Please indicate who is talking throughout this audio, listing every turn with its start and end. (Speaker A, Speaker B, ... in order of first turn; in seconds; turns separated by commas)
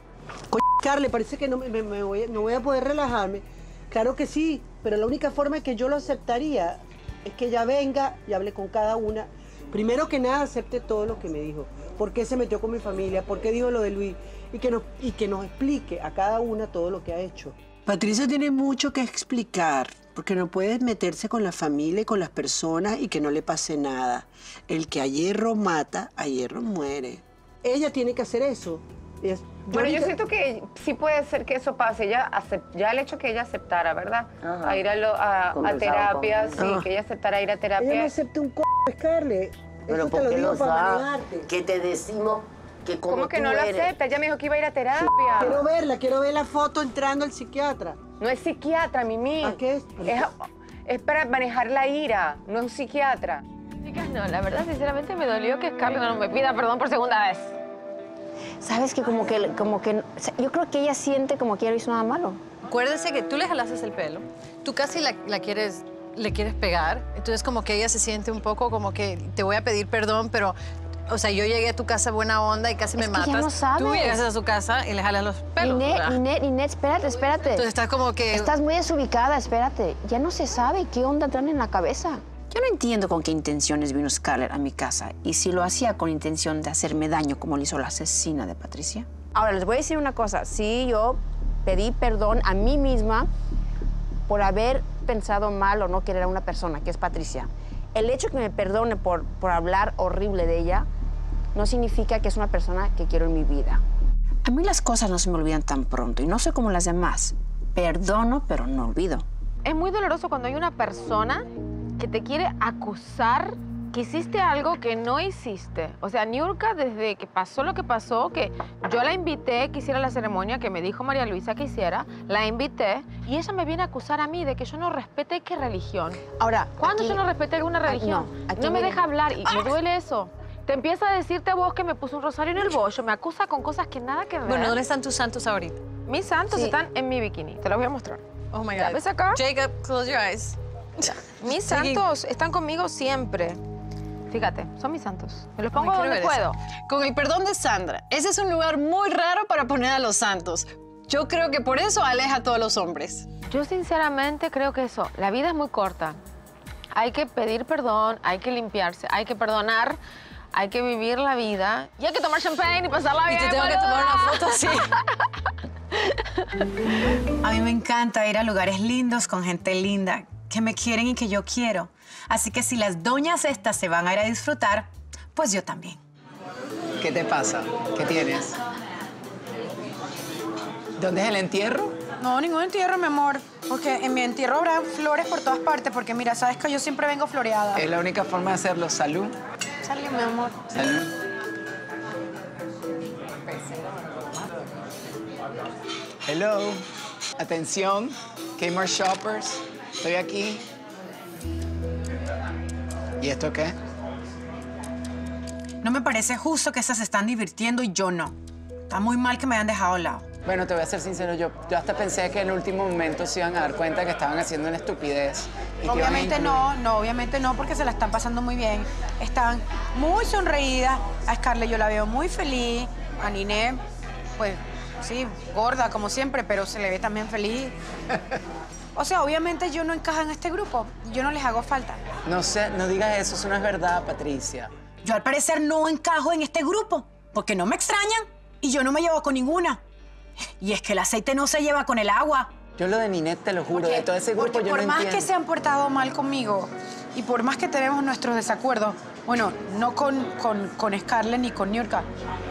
Speaker A: 0.5-30.1, Speaker B: 29.6-38.1, Speaker C: 34.4-34.8, Speaker C: 35.5-36.7, Speaker A: 36.5-36.9, Speaker A: 37.8-41.5, Speaker C: 39.9-43.9, Speaker B: 43.1-45.6, Speaker A: 45.4-48.0, Speaker B: 48.2-53.4, Speaker A: 49.4-50.3, Speaker D: 53.8-57.5, Speaker E: 58.6-62.4, Speaker F: 62.6-70.5, Speaker F: 71.1-76.2, Speaker E: 73.0-74.2, Speaker E: 75.6-77.7, Speaker F: 77.5-78.5, Speaker E: 78.3-82.2, Speaker G: 82.5-89.1, Speaker E: 89.3-93.3, Speaker E: 94.3-100.9, Speaker E: 101.5-103.8, Speaker G: 104.4-109.2, Speaker D: 109.6-111.5, Speaker D: 112.0-126.3, Speaker E: 126.4-127.2, Speaker D: 126.8-134.8, Speaker E: 127.8-129.7, Speaker F: 134.4-135.8, Speaker D: 136.1-138.2, Speaker E: 136.5-136.8, Speaker F: 138.5-142.0, Speaker D: 138.8-139.4, Speaker D: 141.4-143.6, Speaker D: 144.3-146.6, Speaker F: 145.7-153.3, Speaker D: 153.5-156.2, Speaker D: 156.9-160.0, Speaker D: 160.5-165.2, Speaker F: 163.3-164.9, Speaker H: 167.4-176.0, Speaker I: 177.0-178.6, Speaker I: 181.0-182.0, Speaker J: 182.2-187.9, Speaker I: 187.7-189.3, Speaker J: 189.8-190.8, Speaker I: 190.7-191.1, Speaker I: 196.3-196.8, Speaker I: 197.4-200.6, Speaker I: 203.2-203.7, Speaker H: 205.8-208.3, Speaker H: 208.9-210.2, Speaker I: 210.4-216.7, Speaker J: 215.8-223.8, Speaker J: 224.4-227.7, Speaker J: 228.9-232.0, Speaker I: 232.3-234.7, Speaker H: 235.0-239.8, Speaker H: 240.6-242.6, Speaker I: 242.8-245.3, Speaker J: 243.7-252.1